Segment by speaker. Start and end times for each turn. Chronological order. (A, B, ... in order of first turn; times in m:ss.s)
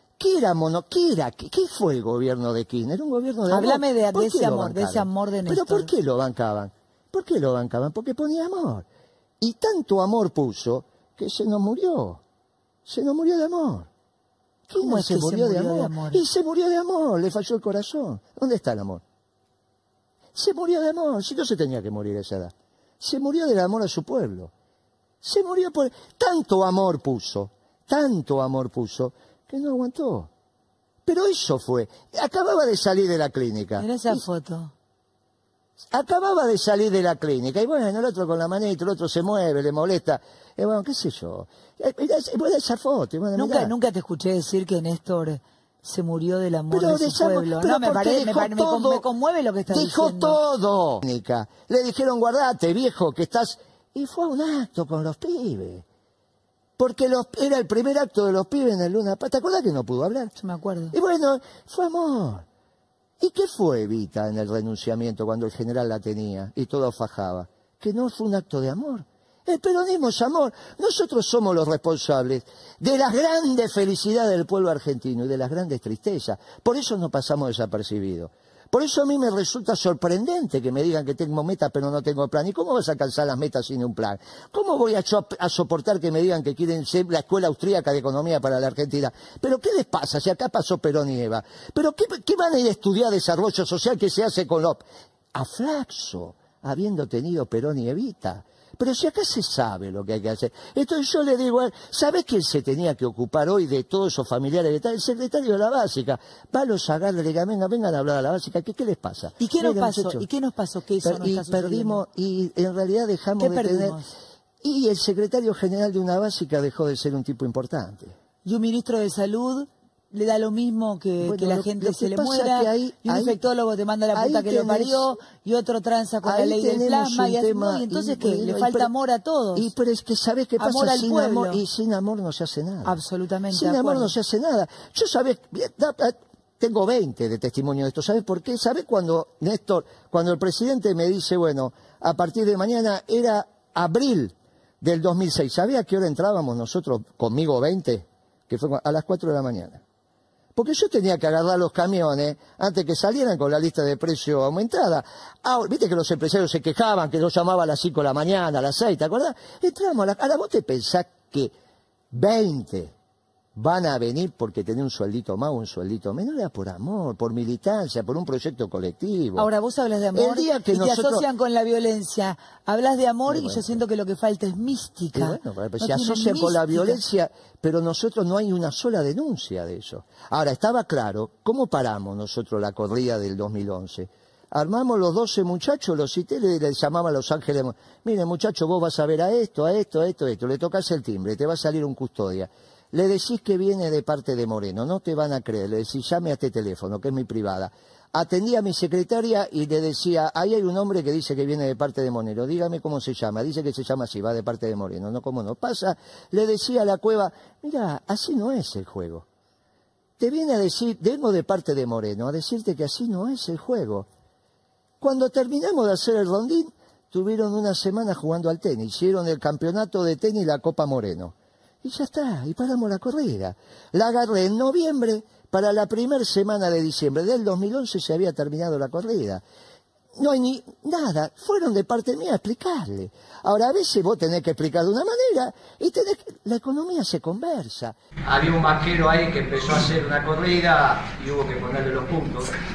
0:00.2-0:08.9 A
0:03.5-0:05.9 B
0:09.4-0:12.2 A
0:12.9-0:13.9 A
0:14.7-0:19.0 A
0:14.8-0:16.2 B
0:20.3-0:24.5 A
0:25.2-0:30.3 A
0:31.0-0:34.2 A
0:33.8-0:34.7 B
0:35.9-0:43.8 A
0:43.4-0:50.4 B
0:46.7-0:49.0 A
0:49.7-0:55.8 A
0:56.8-1:00.4 A
1:00.4-1:01.0 B
1:00.9-1:02.4 A
1:03.2-1:50.2 A
1:49.4-1:52.0 B
1:51.0-1:54.0 A
1:53.4-1:54.1 B
1:54.6-1:58.1 A
1:58.4-2:09.7 B
2:01.2-2:03.4 A
2:04.1-2:05.1 A
2:06.2-2:08.9 A
2:09.5-2:29.8 A
2:10.6-2:11.6 B
2:12.8-2:14.1 B
2:30.6-2:41.5 A
2:42.1-2:42.9 A
2:43.5-2:49.5 A
2:49.4-2:57.0 B
2:50.1-2:51.2 A
2:53.3-2:53.8 A
2:55.1-3:29.2 A
3:30.2-3:34.1 A
3:35.0-3:49.4 A
3:50.2-3:59.3 A
3:58.3-4:02.5 C
3:59.8-4:01.2 A